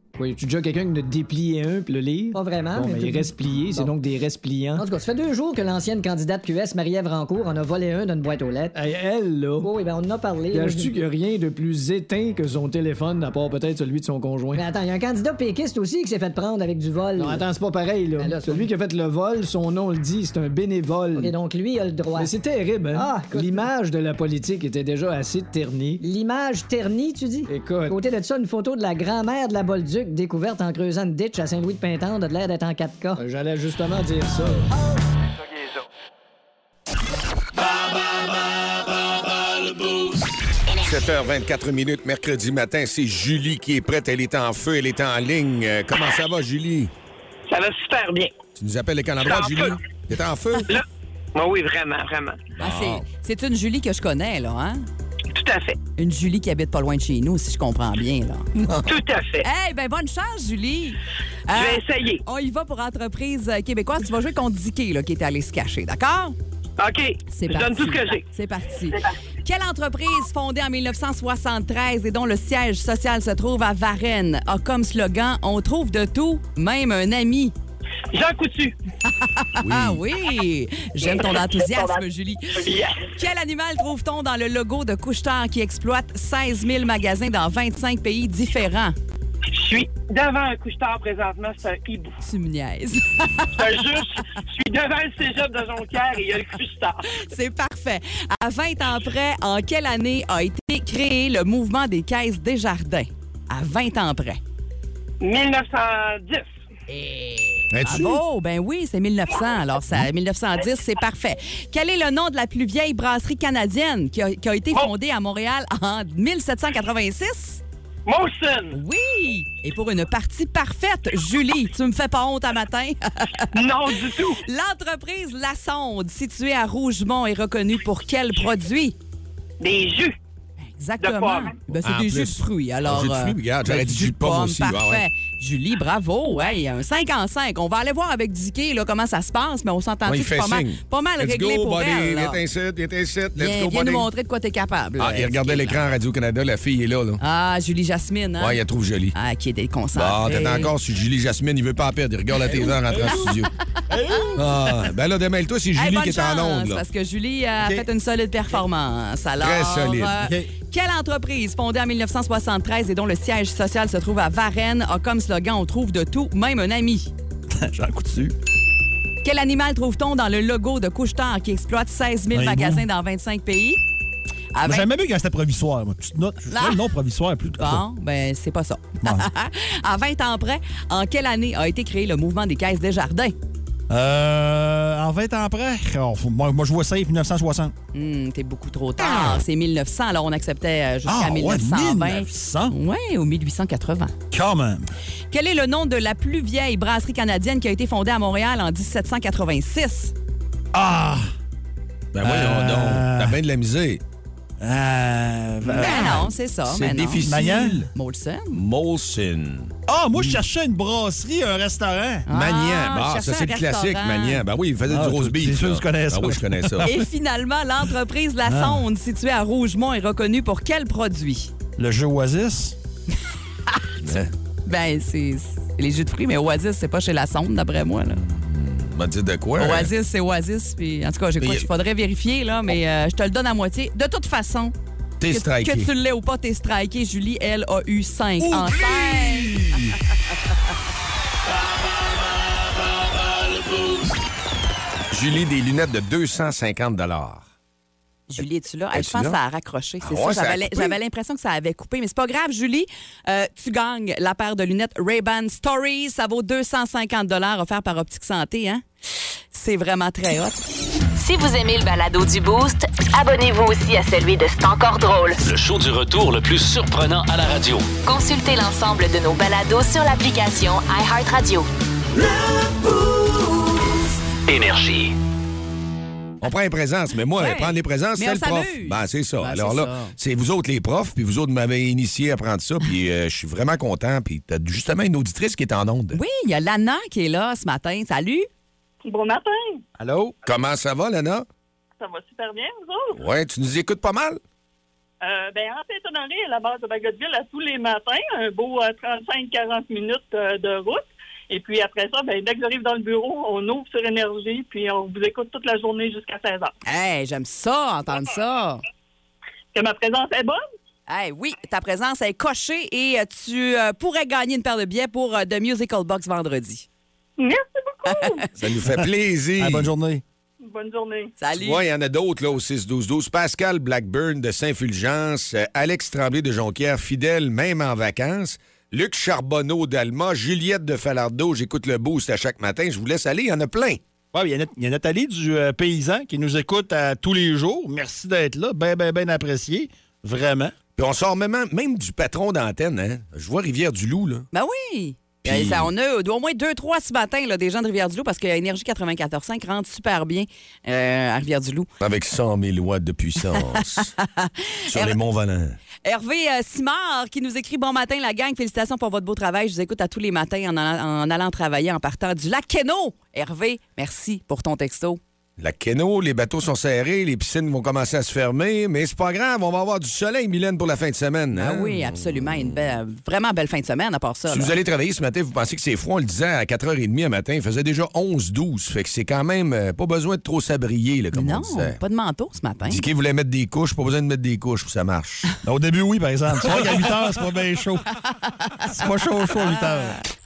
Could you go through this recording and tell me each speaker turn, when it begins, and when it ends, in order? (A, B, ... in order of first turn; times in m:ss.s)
0:00.2-0:04.8 A
0:02.3-0:03.9 B
0:04.8-0:08.8 B
0:08.7-0:09.7 A
0:09.6-0:10.9 B
0:10.5-0:14.6 A
0:14.5-0:17.5 B
0:17.2-0:21.3 A
0:18.2-0:18.7 B
0:21.2-0:22.3 B
0:22.1-0:26.0 A
0:22.9-0:23.7 B
0:26.0-0:33.2 B
0:27.5-0:28.0 A
0:33.2-0:34.7 A
0:40.7-0:41.0 C
0:40.8-0:46.9 D
0:47.5-0:48.3 E
0:48.6-0:50.7 D
0:49.2-0:49.8 E
0:50.7-0:52.4 E
0:52.6-0:53.0 D
0:52.6-0:54.8 F
0:55.3-0:55.8 E
0:56.0-0:58.5 F
0:58.6-0:58.9 D
0:58.8-0:59.5 E
0:59.4-1:06.4 F
1:01.5-1:02.2 E
1:06.8-1:08.2 E
1:07.3-1:17.5 F
1:18.1-1:18.8 E
1:19.1-1:29.0 F
1:19.6-1:20.0 D
1:22.6-1:23.0 E
1:29.5-1:32.2 E
1:32.2-1:33.9 F
1:33.6-1:37.0 E
1:37.1-1:44.4 F
1:45.2-1:46.5 E
1:46.9-1:57.6 F
1:47.7-1:48.2 D
1:58.0-1:58.8 E
1:58.7-2:03.5 F
2:03.5-2:04.4 E
2:04.4-2:09.0 F
2:09.6-2:10.2 E
2:10.8-2:22.4 F
2:11.0-2:11.6 E
2:11.7-2:15.0 D
2:20.0-2:24.1 D
2:23.4-2:25.8 F
2:25.0-2:27.2 D
2:27.2-2:28.6 F
2:28.4-2:29.2 D
2:29.1-2:30.7 F
2:30.0-2:33.5 D
2:32.5-2:33.3 G
2:32.6-2:33.3 F
2:33.9-2:34.8 G
2:34.4-2:36.8 D
2:35.8-2:47.1 F
2:37.6-2:37.8 G
2:39.4-2:40.2 D
2:40.2-2:40.5 G
2:47.5-2:48.3 G
2:49.2-2:53.8 F
2:52.3-2:52.8 G
2:54.5-2:54.9 F
2:54.6-2:57.8 G
2:56.5-2:56.8 F
2:57.5-3:03.3 F
2:59.0-2:59.3 G
3:03.9-3:07.7 G
3:07.9-3:14.1 F
3:11.0-3:12.7 G
3:14.3-3:14.9 G
3:15.3-3:20.1 F
3:20.7-3:21.3 G
3:22.1-3:24.0 D
3:22.2-3:23.4 G
3:24.6-3:26.3 G
3:25.7-3:27.4 F
3:25.8-3:27.9 D
3:27.2-3:27.8 G
3:27.9-3:28.6 F
3:28.5-3:30.4 D
3:29.9-3:32.2 G
3:32.3-3:34.4 F
3:32.3-3:36.9 D
3:34.8-3:37.0 G
3:36.8-3:41.5 F
3:38.5-3:38.9 G
3:41.8-3:42.8 G
3:44.0-3:44.3 D
3:44.7-3:48.2 F
3:48.2-3:49.9 D
3:49.6-3:54.7 F
3:51.4-3:51.7 D
3:55.2-3:55.9 D
3:55.3-3:59.6 F
3:58.4-4:00.0 D
4:05.1-4:07.5 D
4:08.3-4:18.8 F
4:08.9-4:09.4 D
4:10.0-4:11.0 D
4:19.5-4:20.6 F
4:21.2-4:25.4 C
4:25.4-4:27.9 H
4:28.0-4:31.7 C
4:34.5-4:35.2 H
4:36.4-4:46.2 D
4:37.4-4:40.2 F
4:46.1-4:48.5 F
4:49.0-4:49.8 I
4:50.0-4:50.3 G
4:50.4-4:51.5 D
4:52.0-4:53.2 I
4:53.2-4:54.4 D
4:55.2-5:06.7 I
5:06.8-5:08.8 F
5:09.7-5:10.6 I
5:11.1-5:16.8 F
5:17.4-5:18.5 I
5:18.1-5:18.4 F
5:18.6-5:19.9 D
5:19.0-5:20.2 G
5:20.6-5:21.3 I
5:21.4-5:21.8 F
5:21.5-5:34.0 D
5:34.3-5:40.7 G
5:41.0-5:44.5 D
5:44.5-5:51.9 F
5:45.4-5:45.9 D
5:52.0-5:54.1 D
5:54.0-5:55.2 F
5:54.9-5:55.8 D
5:56.0-6:05.2 F
6:05.6-6:13.0 D
6:11.5-6:14.8 F
6:14.5-6:22.0 D
6:21.3-6:23.0 F
6:22.8-6:25.5 D
6:25.6-6:28.0 G
6:28.9-6:30.2 G